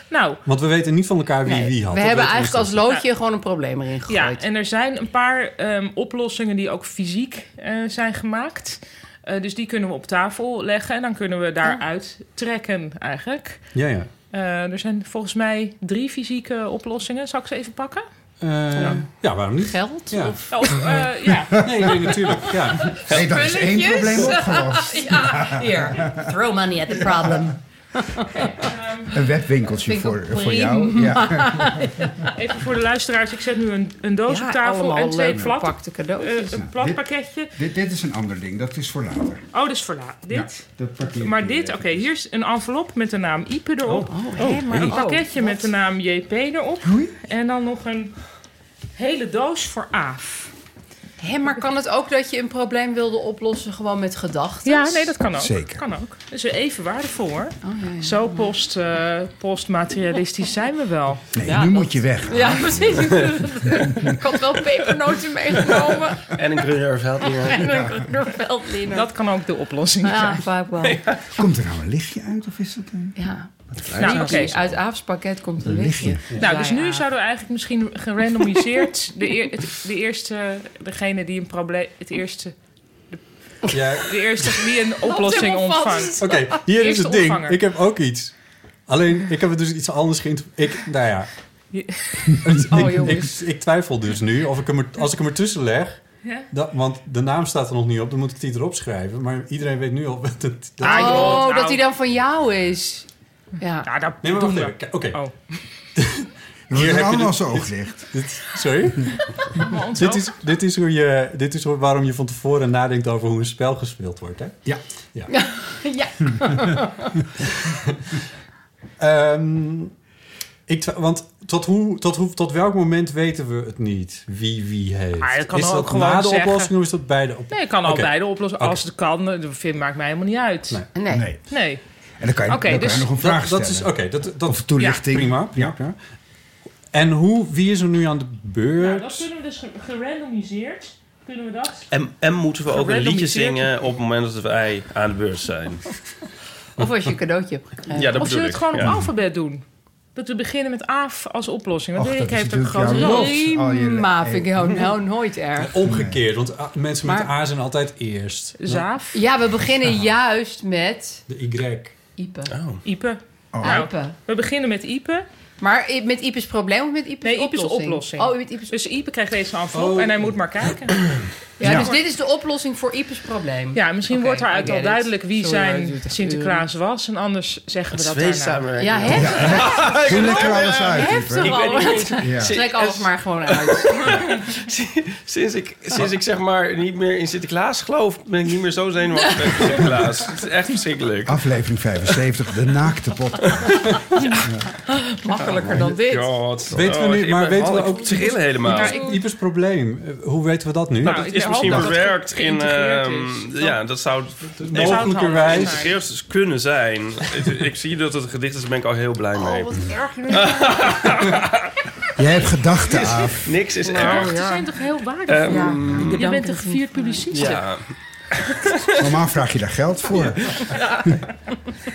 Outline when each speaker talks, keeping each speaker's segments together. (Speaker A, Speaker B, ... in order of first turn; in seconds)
Speaker A: 0.1-0.4, 4.1-13.8, 14.3-18.0, 20.5-21.7, 28.6-29.1, 32.4-37.5, 39.5-48.4, 48.9-50.5, 54.6-61.3, 62.8-63.3, 65.5-66.2, 67.5-70.4, 74.0-74.5, 76.4-83.2, 84.0-87.6, 91.7-92.6, 100.8-101.8, 103.8-105.3, 109.6-110.3, 125.2-126.7, 127.5-130.8, 131.5-131.8, 132.5-133.1, 138.8-141.9, 142.7-143.7, 148.0-149.6, 150.1-153.5, 158.6-159.2, 162.8-165.2, 167.2-172.0, 173.7-178.6, 198.6-199.2, 201.0-203.8, 204.7-205.9, 209.4-211.1, 213.8-217.7
Speaker B: 0.4-2.8, 13.7-14.1, 18.4-20.8, 21.6-23.0, 83.7-84.2, 86.2-91.4, 92.5-101.5, 104.2-105.2, 105.9-115.3, 119.0-119.9, 120.7-128.8, 132.9-136.0, 136.9-139.3, 155.6-159.0, 161.3-161.9, 169.8-170.3, 196.7-201.9, 204.6-205.8
Speaker C: 1.4-4.4, 19.6-20.5, 23.1-27.6, 29.7-32.3, 34.3-36.6, 44.1-45.7, 51.2-55.2, 57.6-58.5, 61.4-66.2, 68.2-69.3, 70.0-71.1, 73.2-77.1, 85.0-86.6, 92.7-93.4, 100.8-103.1, 103.6-103.9, 115.3-116.9, 130.9-131.3, 146.8-148.5, 152.8-155.8, 159.1-161.2, 162.2-162.6, 163.6-164.2, 165.6-168.8, 171.6-176.7, 178.8-184.3, 195.2-196.3, 215.5-217.6
Speaker D: 20.9-21.5, 23.0-26.3, 26.9-27.5, 29.1-32.1, 36.5-39.5, 40.3-42.1, 44.0-45.0, 46.8-47.1, 55.3-55.8, 61.4-64.1, 71.3-73.2, 75.6-76.3, 106.7-108.1, 131.1-131.6, 132.2-135.8, 148.8-149.1, 151.9-155.0, 155.8-156.2, 163.5-163.9, 171.6-171.9, 179.1-182.6, 191.2-194.6, 195.6-195.9, 212.2-213.5, 218.9-221.1
Speaker E: 66.3-67.6, 70.8-71.2, 73.8-74.7, 141.9-145.8, 147.9-148.9, 162.5-162.8, 177.9-191.4, 195.4-199.0, 201.0-209.7, 210.3-211.5, 213.4-214.7, 215.3-216.2, 217.3-218.8